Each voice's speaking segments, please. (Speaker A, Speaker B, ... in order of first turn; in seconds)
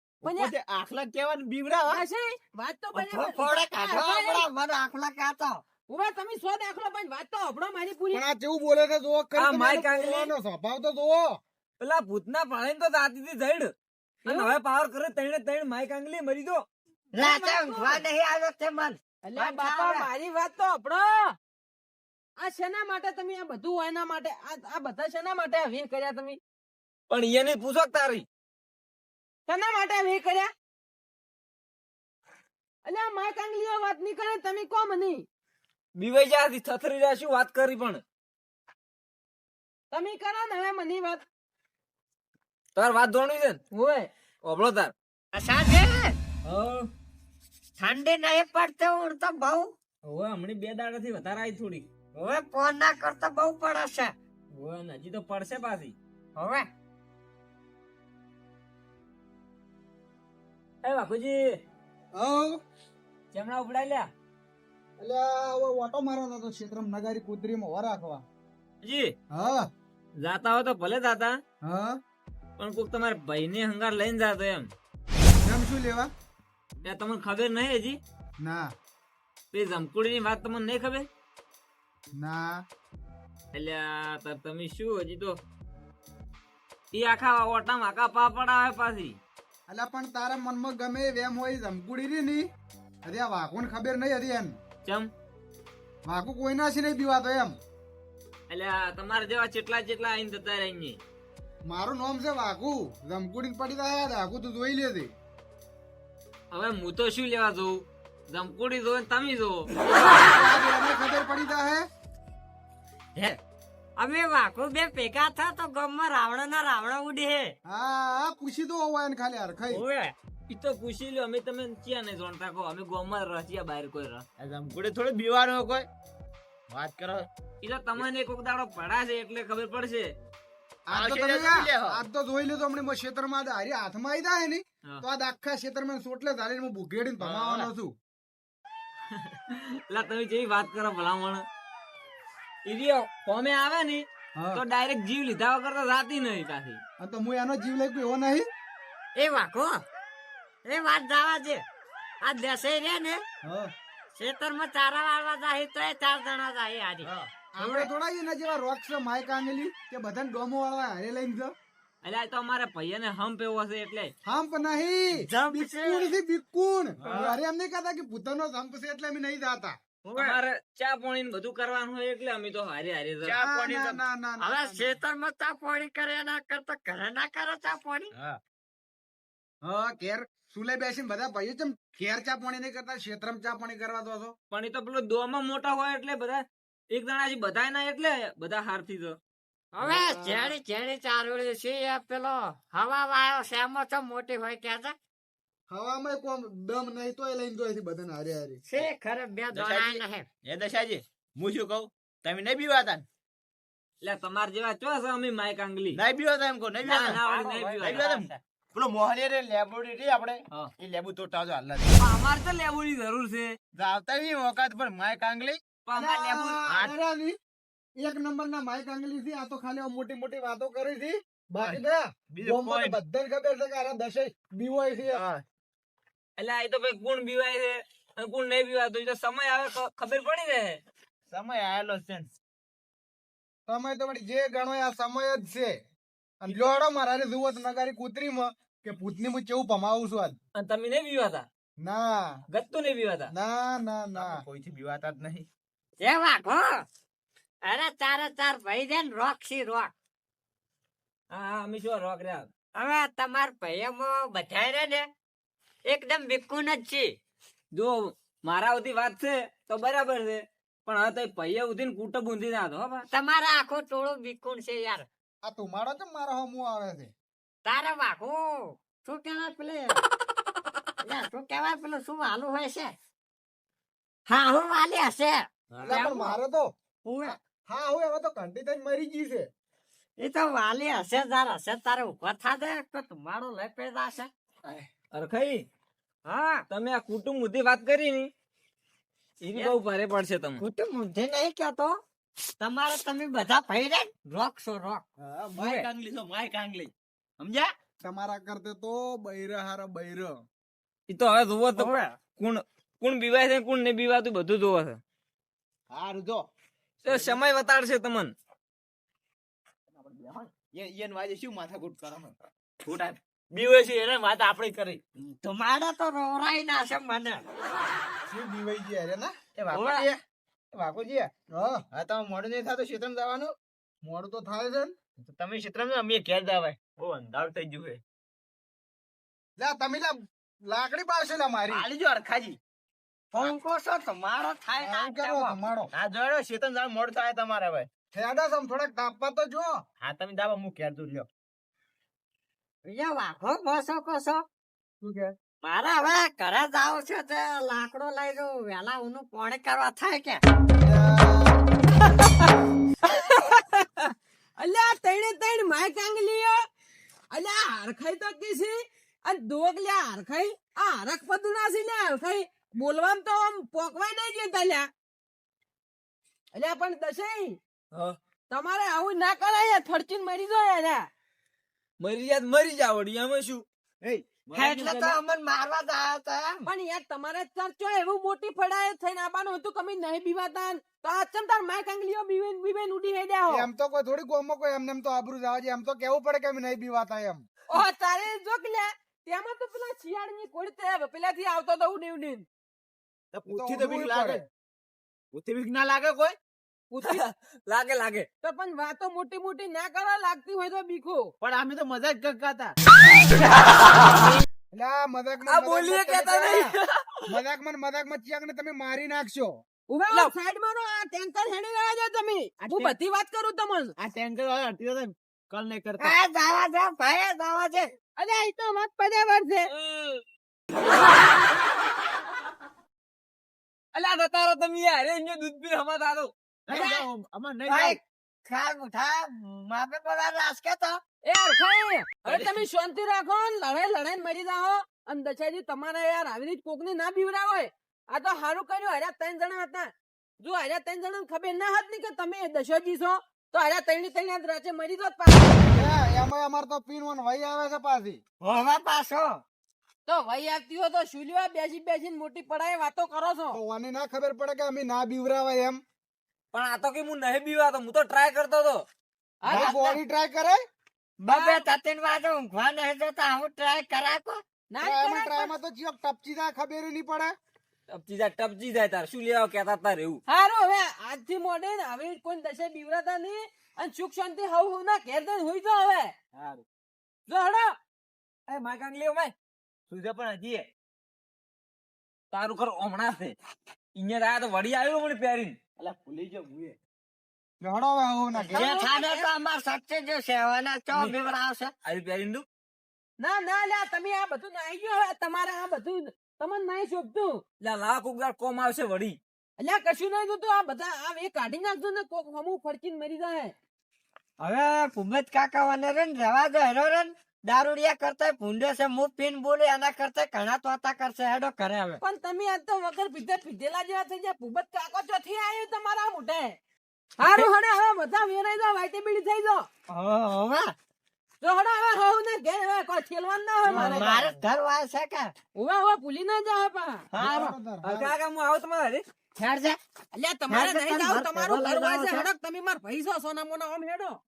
Speaker A: 0.2-2.0, 124.4-125.9, 126.7-127.3, 130.9-132.0, 137.2-137.7, 167.0-167.4, 170.0-170.4, 173.2-174.0, 199.5-203.1, 205.9-212.0, 213.8-215.6, 216.7-216.9, 222.3-223.0, 225.1-225.4, 231.3-232.3, 244.2-245.5, 275.7-276.1, 295.2-297.7, 305.9-306.5, 307.1-307.4, 309.9-315.3, 319.6-320.2, 320.7-321.3, 321.9-323.6, 325.2-328.0, 331.7-332.6, 335.9-337.9, 340.0-341.3, 374.0-375.2, 393.3-394.4, 395.3-396.4, 401.4-402.8, 412.6-412.9, 414.0-416.1, 426.7-428.0, 432.3-432.6, 476.3-476.6, 479.9-480.7, 485.8-486.8
Speaker B: 0.2-0.5, 1.9-4.5, 5.9-8.2, 14.3-14.5, 17.2-18.0, 19.2-21.4, 22.4-26.4, 29.5-30.5, 32.9-35.3, 39.9-41.2, 43.7-44.1, 354.6-356.6, 357.3-364.9, 366.5-367.6, 368.5-371.1, 376.7-383.7, 387.7-392.5, 396.9-397.3, 398.4-401.3, 409.9-413.9, 418.2-419.7, 431.2-445.9, 450.1-453.6, 459.4-459.8, 461.3-461.6, 464.7-465.5, 470.3-476.1, 477.3-477.8, 488.4-489.3, 493.2-497.4, 499.6-503.5, 512.0-516.6, 517.2-519.7, 521.4-524.0, 525.6-527.1, 530.1-534.2
Speaker C: 2.9-5.6, 17.1-20.1, 45.3-46.2, 47.8-49.7, 52.1-54.1, 56.4-56.7, 114.0-117.5, 119.7-120.1, 149.2-149.8, 150.7-151.6, 152.2-153.2, 154.2-157.9, 165.2-166.1, 174.4-178.1, 189.7-195.0, 198.7-200.3, 207.2-208.3, 246.0-246.8, 247.6-249.9, 252.8-255.1, 255.9-257.1, 263.1-265.1, 267.6-270.0, 271.0-272.9, 274.3-276.4, 277.0-277.4, 280.2-284.3, 286.3-286.6, 290.6-292.0, 292.6-295.0, 301.8-302.2, 315.4-317.4, 319.7-320.1, 333.3-335.6, 342.9-344.5, 345.6-350.4, 374.5-376.6, 416.0-417.9, 426.7-427.1, 427.7-431.0, 448.4-449.4, 459.5-459.9, 461.2-464.4, 488.5-491.7, 504.4-512.0, 519.9-520.8, 523.7-525.3, 527.1-527.5, 529.4-529.8, 530.5-532.3
Speaker D: 8.1-11.4, 62.2-62.6, 65.0-68.2, 69.3-69.7, 71.7-72.0, 75.4-76.1, 78.4-78.7, 82.2-82.6, 89.7-92.5, 93.0-94.6, 96.1-97.6, 101.7-105.1, 110.1-111.9, 117.7-119.8, 130.9-137.9, 147.0-148.5, 153.4-153.7, 157.6-161.5, 164.2-169.8, 173.4-175.0, 179.6-184.4, 189.8-190.5, 195.7-198.6, 215.9-217.4, 218.0-225.2, 233.7-235.8, 236.4-240.4, 241.8-242.4, 243.3-244.4, 265.4-267.1, 275.9-276.7, 277.3-279.5, 298.0-300.4, 318.3-319.3, 321.5-321.8, 324.0-324.9, 329.6-331.9, 334.8-335.9, 338.1-339.8, 345.0-345.3, 350.8-351.6, 383.5-387.5, 393.5-394.4, 404.7-406.7, 407.3-409.6, 445.7-448.2, 453.5-455.8, 459.5-460.6, 464.8-467.4, 487.6-488.7, 523.7-524.3, 527.1-528.1
Speaker E: 9.4-10.3, 11.8-13.7, 14.2-16.6, 27.1-28.2, 36.0-38.0, 42.8-43.6, 44.4-44.9, 46.5-46.9, 50.0-51.9, 54.5-56.0, 60.8-61.6, 63.3-64.1, 68.8-69.1, 70.2-71.4, 72.6-74.7, 76.8-78.0, 79.5-81.1, 83.5-85.4, 86.9-89.2, 94.8-95.1, 98.5-101.0, 106.5-107.8, 108.3-109.7, 120.5-124.2, 127.6-130.1, 139.1-141.4, 142.7-146.8, 162.0-164.1, 170.2-173.4, 184.5-189.2, 204.0-206.0, 206.8-208.1, 212.0-213.5, 215.9-216.6, 226.4-230.8, 240.6-241.4, 242.5-243.3, 251.3-252.5, 257.8-263.1, 285.1-285.6, 286.7-288.3, 289.4-290.6, 301.1-305.0, 307.1-308.3, 372.0-373.6, 397.1-398.3, 405.5-407.3, 419.7-420.2, 423.9-426.3, 456.5-458.8, 467.9-470.2, 478.5-479.3, 482.3-483.4, 484.0-485.6, 490.9-491.2, 491.9-492.4, 497.6-499.2, 527.8-529.0